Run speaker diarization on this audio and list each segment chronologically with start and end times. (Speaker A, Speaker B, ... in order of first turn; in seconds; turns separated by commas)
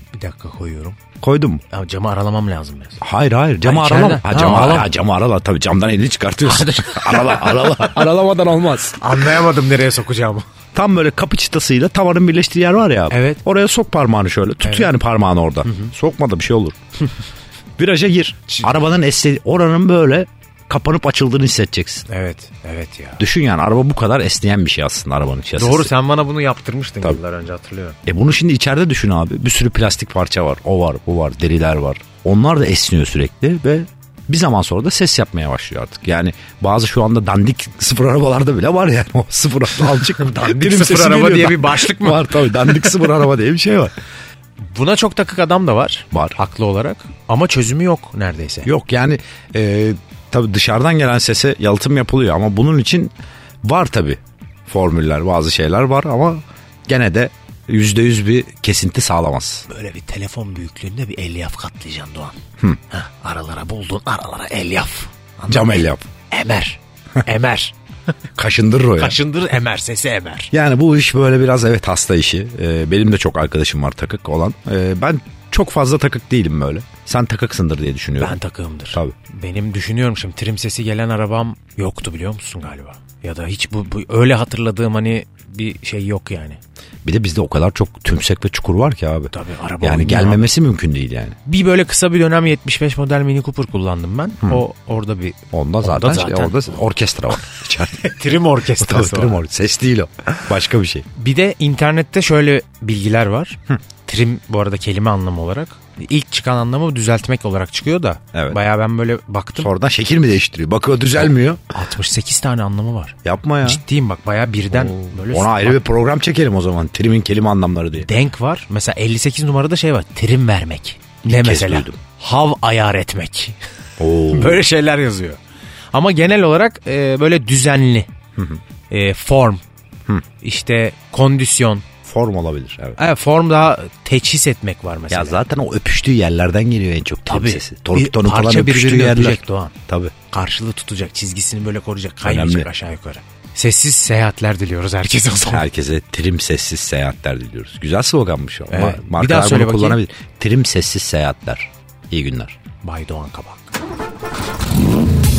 Speaker A: 0.1-1.0, Speaker B: 1.2-1.6, Speaker A: 1.7-3.0, Speaker B: 3.0-9.0, Speaker A: 3.6-4.9, Speaker A: 6.5-8.0, Speaker A: 9.0-10.4, Speaker B: 10.7-16.8, Speaker A: 13.1-13.4, Speaker A: 14.6-14.9, Speaker A: 15.7-15.9, Speaker B: 17.8-22.1, Speaker A: 22.1-23.2, Speaker B: 23.2-25.9, Speaker A: 25.6-28.0, Speaker B: 28.1-43.9, Speaker A: 39.9-42.9, Speaker A: 44.6-48.7, Speaker B: 46.1-46.4, Speaker B: 48.6-53.1, Speaker B: 53.6-59.6, Speaker A: 59.7-62.4, Speaker A: 62.9-67.7, Speaker B: 65.5-66.0, Speaker B: 68.3-69.2, Speaker A: 69.0-70.5, Speaker B: 70.5-78.4, Speaker A: 78.2-86.6, Speaker B: 87.0-91.3, Speaker A: 89.3-90.5, Speaker A: 91.4-96.8, Speaker B: 95.5-98.1, Speaker A: 97.3-99.4, Speaker B: 98.8-101.0, Speaker A: 101.2-109.7, Speaker B: 108.3-108.6, Speaker B: 109.6-111.6, Speaker A: 111.2-115.8, Speaker B: 113.2-113.8, Speaker B: 114.7-118.1, Speaker A: 118.0-123.6, Speaker B: 121.2-122.0, Speaker B: 124.0-124.6, Speaker A: 124.3-125.4, Speaker A: 125.9-128.1, Speaker B: 128.3-128.6, Speaker A: 128.9-129.6, Speaker A: 130.4-131.8, Speaker B: 132.0-133.0, Speaker A: 133.0-135.4, Speaker B: 135.1-140.1, Speaker A: 137.3-139.7, Speaker A: 140.3-145.7, Speaker B: 142.2-142.7, Speaker B: 145.5-152.6, Speaker A: 148.7-150.0, Speaker A: 152.8-153.7